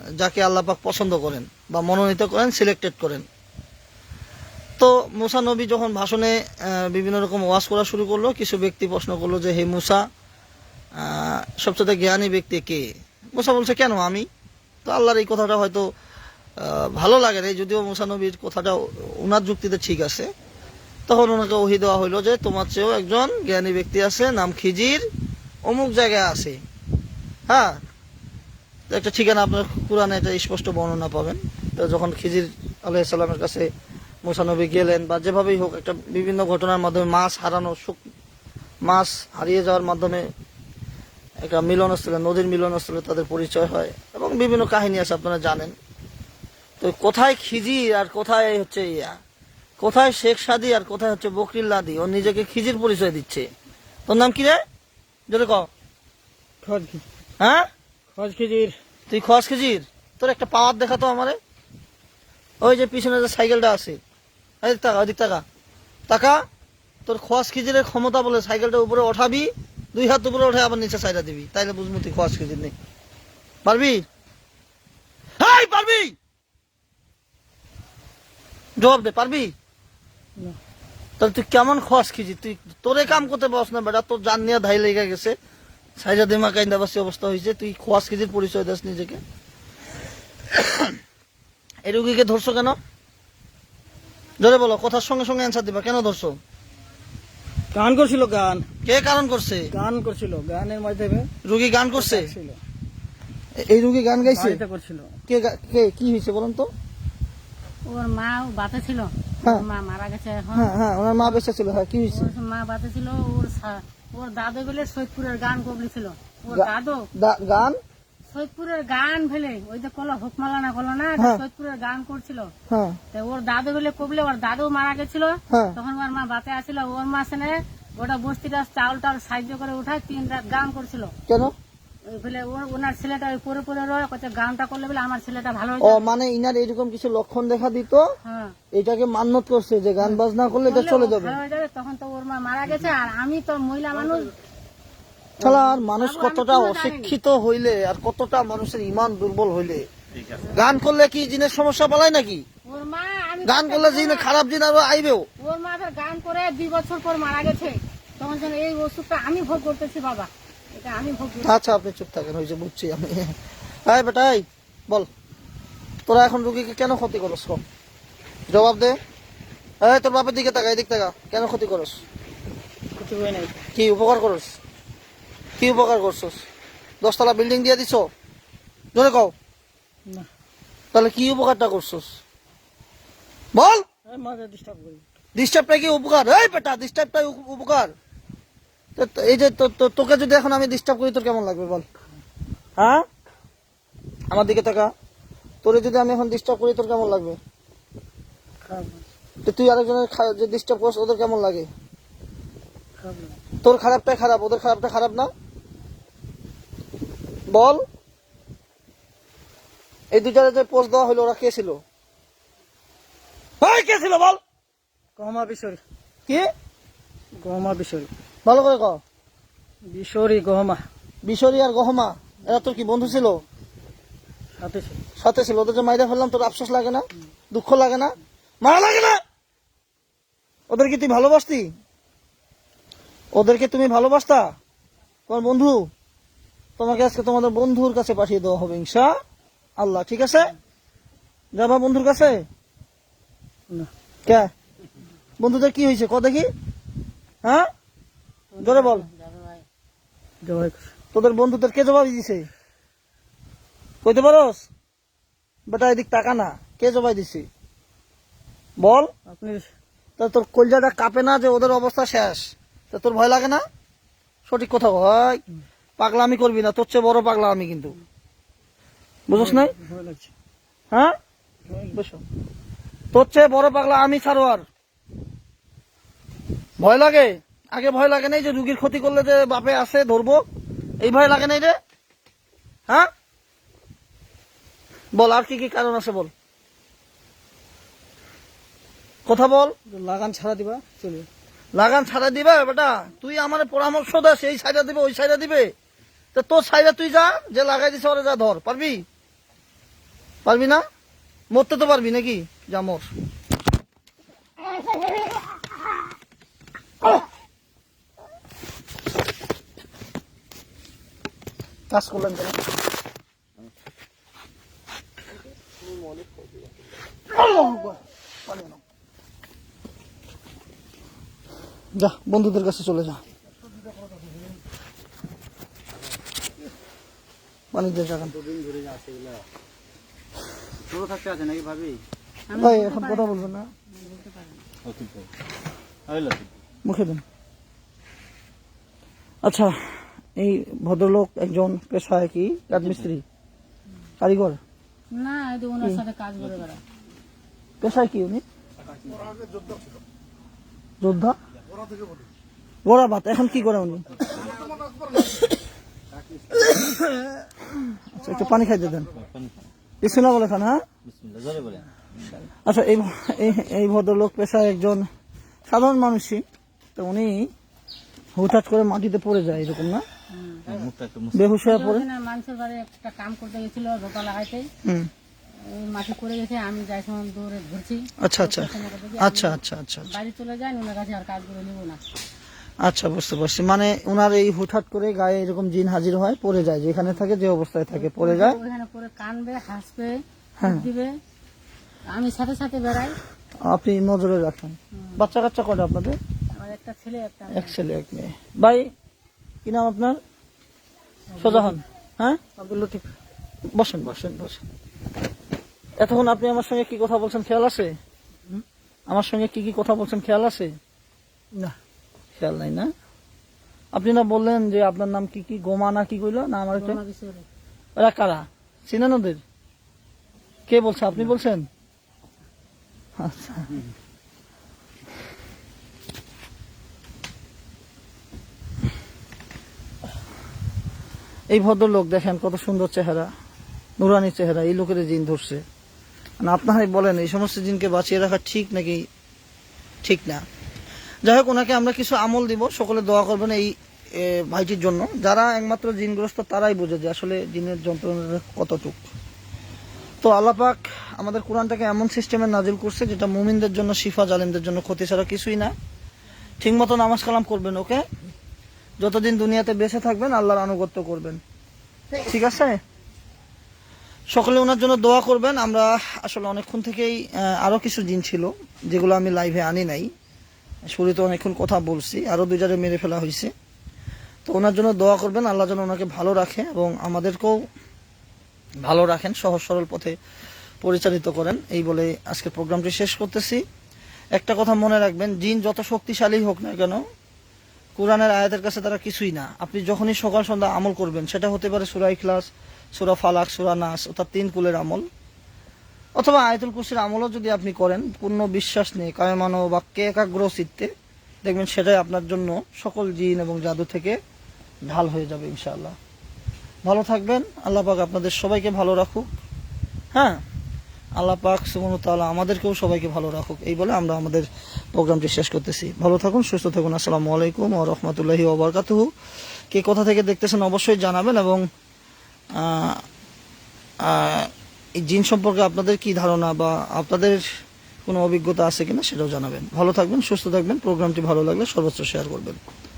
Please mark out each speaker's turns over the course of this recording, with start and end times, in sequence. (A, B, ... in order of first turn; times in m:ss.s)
0:00.2-0:03.2 A
0:04.8-0:10.0 A
0:11.0-0:14.3 A
0:14.8-0:15.9 A
0:16.6-0:20.3 A
0:21.1-0:25.0 A
0:25.7-0:26.6 A
0:27.5-0:27.8 A
0:28.9-0:33.7 A
0:34.2-0:38.0 A
0:38.8-0:40.3 A
0:41.4-0:45.8 A
0:46.8-0:49.2 A
0:49.8-0:53.5 A
0:54.1-0:54.6 A
0:55.3-0:55.7 A
0:56.6-0:57.0 B
0:57.4-0:57.7 A
0:58.1-0:58.8 B
0:59.1-1:01.4 A
1:02.6-1:04.0 A
1:04.6-1:05.4 A
1:06.1-1:06.4 A
1:07.1-1:12.7 A
1:13.6-1:14.0 A
1:15.4-1:16.2 A
1:18.8-1:19.5 A
1:21.2-1:25.4 A
1:26.0-1:29.2 A
1:31.8-1:32.8 A
1:34.4-1:36.4 A
1:37.7-1:38.6 B
1:38.8-1:39.7 A
1:39.7-1:41.3 B
1:41.4-1:42.3 A
1:42.0-1:42.6 B
1:43.6-1:44.6 A
1:44.2-1:45.1 B
1:45.3-1:46.7 A
1:47.9-1:51.4 C
1:50.6-1:52.3 A
1:52.1-1:57.1 C
1:56.5-1:57.8 A
1:58.3-2:02.5 C
2:01.2-2:01.4 A
2:02.7-2:03.0 A
2:03.1-2:11.1 C
2:05.5-2:05.8 A
2:11.3-2:11.5 A
2:12.1-2:16.1 C
2:15.8-2:18.1 A
2:18.2-2:18.6 C
2:18.7-2:21.4 A
2:20.0-2:24.3 C
2:25.4-2:27.2 C
2:25.4-2:29.9 A
2:30.5-2:32.4 A
2:32.6-2:34.3 C
2:33.4-2:35.3 A
2:35.4-2:41.6 C
2:41.4-2:43.4 A
2:43.9-2:45.1 A
2:46.1-2:47.6 A
2:48.5-2:49.0 A
2:49.8-2:52.0 A
2:53.0-2:53.6 B
2:53.8-2:54.5 A
2:55.6-2:56.4 A
2:57.0-2:58.1 A
2:59.0-2:59.3 A
3:00.9-3:02.1 A
3:03.6-3:03.8 A
3:04.1-3:05.0 B
3:05.4-3:07.9 A
3:09.0-3:11.9 A
3:12.8-3:13.0 A
3:14.3-3:14.9 A
3:15.6-3:17.4 A
3:18.6-3:19.0 B
3:19.4-3:21.7 A
3:23.0-3:23.4 B
3:23.6-3:25.3 A
3:27.5-3:27.8 A
3:30.1-3:31.8 A
3:33.6-3:34.4 A
3:35.2-3:35.8 B
3:37.4-3:38.1 B
3:38.4-3:39.0 A
3:39.9-3:40.8 B
3:41.2-3:43.4 A
3:44.6-3:45.0 B
3:45.2-3:49.2 A
3:50.7-3:51.7 A
3:53.3-3:54.6 A
3:55.3-3:55.9 A
3:56.8-3:59.2 A
3:59.8-4:00.5 A
4:01.5-4:02.5 A
4:04.3-4:04.5 A
4:05.4-4:06.5 A
4:08.5-4:09.6 C
4:08.6-4:09.1 A
4:10.4-4:10.9 B
4:11.1-4:12.5 A
4:14.0-4:14.7 A
4:15.7-4:17.5 A
4:18.8-4:19.1 A
4:19.3-4:19.7 B
4:20.2-4:23.6 A
4:24.5-4:25.4 A
4:26.0-4:28.0 A
4:29.3-4:29.7 A
4:29.3-4:30.3 B
4:31.7-4:32.0 B
4:31.9-4:32.2 A
4:33.1-4:34.6 A
4:36.8-4:40.4 A
4:41.0-4:41.8 A
4:45.2-4:46.3 A
4:49.3-4:49.7 A
4:49.9-4:51.3 B
4:51.8-4:55.7 A
4:56.4-4:59.0 A
5:00.4-5:00.8 A
5:01.5-5:03.1 A
5:11.9-5:12.6 A
5:17.3-5:18.8 A
5:22.0-5:23.2 A
5:27.7-5:28.4 A
5:28.4-5:29.4 B
5:30.9-5:32.0 B
5:32.5-5:34.7 C
5:32.6-5:33.7 A
5:34.8-5:35.3 D
5:36.1-5:36.5 D
5:36.8-5:37.2 A
5:39.4-5:39.8 A
5:40.4-5:43.2 A
5:44.2-5:44.6 A
5:45.1-5:46.8 C
5:47.8-5:48.4 A
5:51.0-5:51.4 A
5:52.8-5:54.5 A
5:58.1-5:59.1 A
5:59.2-5:59.5 D
6:00.0-6:00.8 A
6:01.0-6:01.8 D
6:02.6-6:05.1 A
6:05.7-6:06.4 A
6:07.0-6:07.5 A
6:08.4-6:10.0 A
6:10.3-6:10.7 C
6:10.7-6:11.3 D
6:11.3-6:12.0 A
6:11.6-6:14.7 C
6:14.8-6:15.1 A
6:15.6-6:22.0 C
6:18.2-6:20.1 A
6:22.8-6:28.6 A
6:27.9-6:31.1 C
6:30.6-6:30.9 A
6:32.1-6:33.2 C
6:33.7-6:36.2 A
6:35.0-6:35.2 C
6:36.6-6:37.8 C
6:37.5-6:38.9 A
6:39.6-6:40.2 A
6:41.4-6:41.7 B
6:41.4-6:42.4 A
6:42.6-6:43.1 B
6:43.8-6:44.6 A
6:46.0-6:48.0 A
6:49.1-6:50.7 A
6:52.4-6:52.9 A
6:53.9-6:57.0 A
6:56.8-6:57.5 C
6:58.0-6:59.4 A
7:00.7-7:01.7 A
7:03.2-7:03.8 A
7:11.5-7:13.3 A
7:14.0-7:15.6 A
7:16.4-7:19.1 A
7:20.0-7:20.4 A
7:21.2-7:29.0 A
7:30.2-7:35.7 A
7:36.6-7:38.0 A
7:39.0-7:41.4 A
7:42.2-7:42.8 A
7:44.3-7:50.1 A
7:50.9-7:53.5 A
7:54.5-7:57.6 A
7:58.8-8:00.2 A
8:00.8-8:03.6 A
8:04.4-8:07.0 A
8:08.0-8:15.1 A
8:16.2-8:20.9 A
8:21.4-8:24.2 A
8:24.9-8:26.0 A
8:26.8-8:29.3 A
8:30.1-8:30.4 A
8:31.2-8:39.1 A
8:39.7-8:41.7 A
8:42.6-8:43.0 A
8:44.0-8:47.4 A
8:48.1-8:52.6 A